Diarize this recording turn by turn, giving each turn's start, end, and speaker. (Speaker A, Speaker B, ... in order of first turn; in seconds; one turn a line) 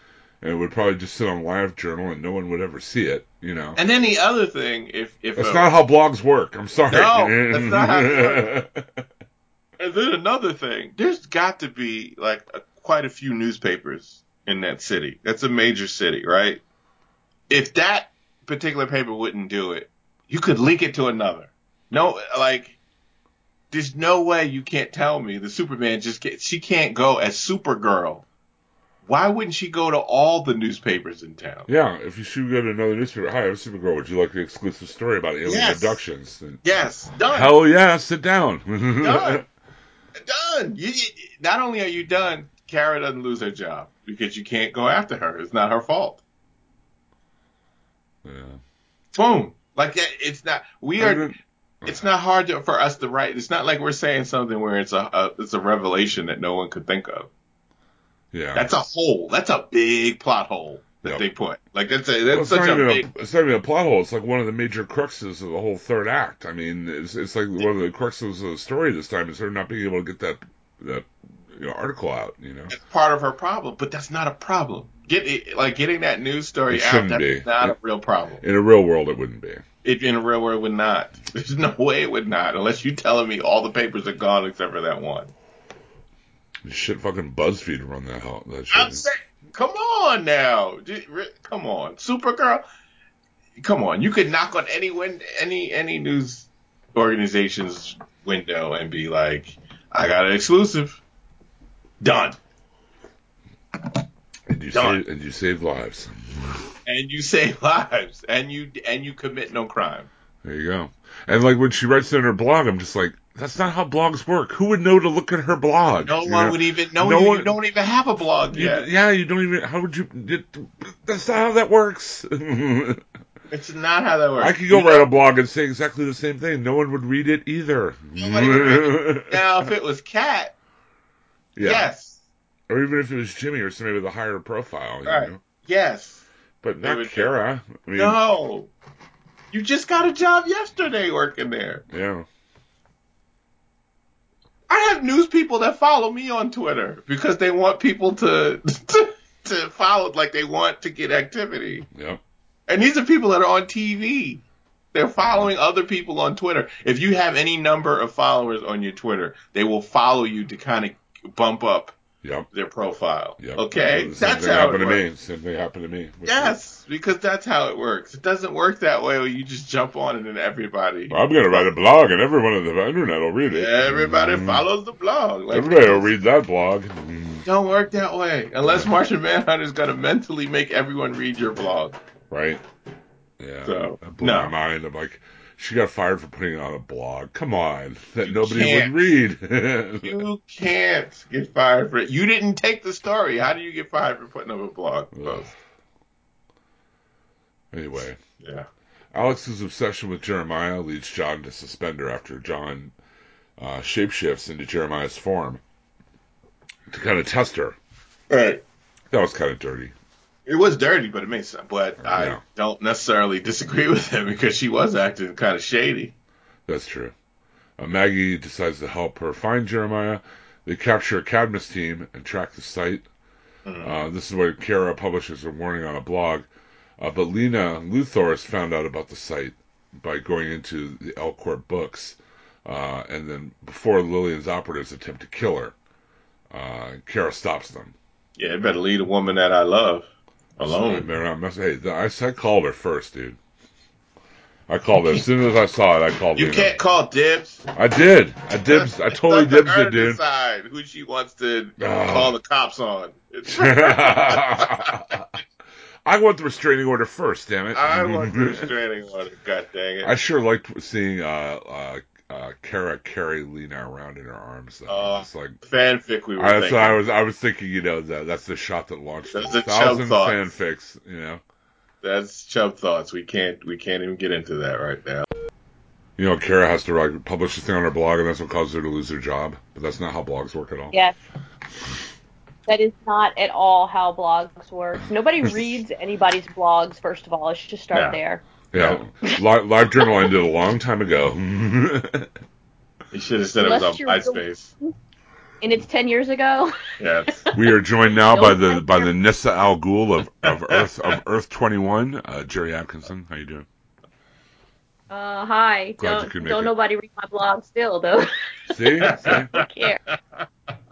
Speaker A: 0.4-3.8
Speaker B: 3.8-5.7
Speaker A: 5.3-9.1
Speaker B: 6.9-8.5
Speaker B: 9.8-16.6
Speaker B: 17.5-22.8
Speaker B: 23.7-28.2
Speaker B: 29.1-31.7
Speaker A: 31.7-39.5
Speaker B: 35.4-36.0
Speaker B: 36.6-37.5
Speaker B: 39.0-39.4
Speaker B: 40.2-46.2
Speaker A: 48.2-48.6
Speaker B: 49.1-51.3
Speaker A: 51.0-52.0
Speaker B: 51.9-57.3
Speaker A: 58.3-58.7
Speaker B: 58.5-63.1
Speaker A: 62.3-72.7
Speaker B: 72.7-78.4
Speaker A: 76.7-77.8
Speaker A: 78.4-79.6
Speaker B: 79.8-85.3
Speaker A: 86.6-89.0
Speaker B: 88.7-92.6
Speaker B: 93.6-101.0
Speaker B: 102.0-102.4
Speaker A: 104.5-106.7
Speaker B: 104.7-105.0
Speaker B: 106.8-110.1
Speaker A: 110.4-117.5
Speaker B: 116.1-118.8
Speaker A: 118.5-123.0
Speaker B: 123.5-125.0
Speaker A: 124.4-129.5
Speaker B: 128.2-130.5
Speaker A: 131.6-131.9
Speaker B: 131.6-132.2
Speaker A: 132.7-135.4
Speaker B: 135.1-136.2
Speaker A: 136.6-138.2
Speaker B: 136.8-137.3
Speaker B: 137.9-138.7
Speaker B: 139.5-141.8
Speaker A: 141.9-142.3
Speaker B: 144.7-151.9
Speaker A: 151.9-152.2
Speaker B: 152.7-154.4
Speaker B: 154.9-161.9
Speaker A: 162.2-162.5
Speaker B: 162.5-165.0
Speaker A: 163.4-166.6
Speaker B: 166.2-171.7
Speaker A: 171.1-174.6
Speaker B: 173.5-176.1
Speaker A: 175.5-177.5
Speaker B: 177.4-182.0
Speaker A: 178.6-178.9
Speaker A: 182.3-182.6
Speaker A: 183.4-190.2
Speaker B: 183.6-184.5
Speaker B: 188.2-189.2
Speaker B: 190.0-195.5
Speaker A: 195.1-195.6
Speaker A: 197.7-198.2
Speaker B: 198.4-198.7
Speaker A: 199.1-202.9
Speaker A: 203.6-205.6
Speaker A: 206.9-207.8
Speaker B: 208.3-208.6
Speaker A: 209.1-209.9
Speaker B: 210.4-216.1
Speaker A: 212.0-212.4
Speaker A: 216.7-217.1
Speaker A: 217.8-223.1
Speaker B: 223.7-224.0
Speaker A: 223.8-226.5
Speaker A: 227.0-235.8
Speaker A: 236.5-237.9
Speaker B: 238.4-241.1
Speaker A: 240.6-243.4
Speaker A: 244.7-246.8
Speaker B: 245.0-245.2
Speaker B: 246.3-247.6
Speaker A: 247.7-250.2
Speaker B: 248.7-255.2
Speaker A: 251.8-252.3
Speaker A: 253.6-255.3
Speaker A: 256.1-258.7
Speaker B: 257.7-260.1
Speaker A: 260.0-265.6
Speaker B: 264.9-267.0
Speaker A: 266.4-271.4
Speaker B: 269.3-270.4
Speaker B: 272.0-275.2
Speaker A: 276.2-280.9
Speaker C: 280.9-281.1
Speaker C: 282.7-288.4
Speaker B: 287.9-288.2
Speaker A: 288.7-292.3
Speaker B: 288.7-289.0
Speaker C: 290.0-290.3
Speaker B: 293.1-294.7
Speaker C: 293.6-294.4
Speaker C: 295.6-296.7
Speaker B: 297.0-297.4
Speaker C: 297.5-299.1
Speaker A: 297.5-303.7
Speaker B: 300.4-301.1
Speaker C: 305.1-308.3
Speaker A: 306.0-306.7
Speaker A: 308.7-309.5
Speaker B: 309.0-310.4
Speaker C: 309.3-310.0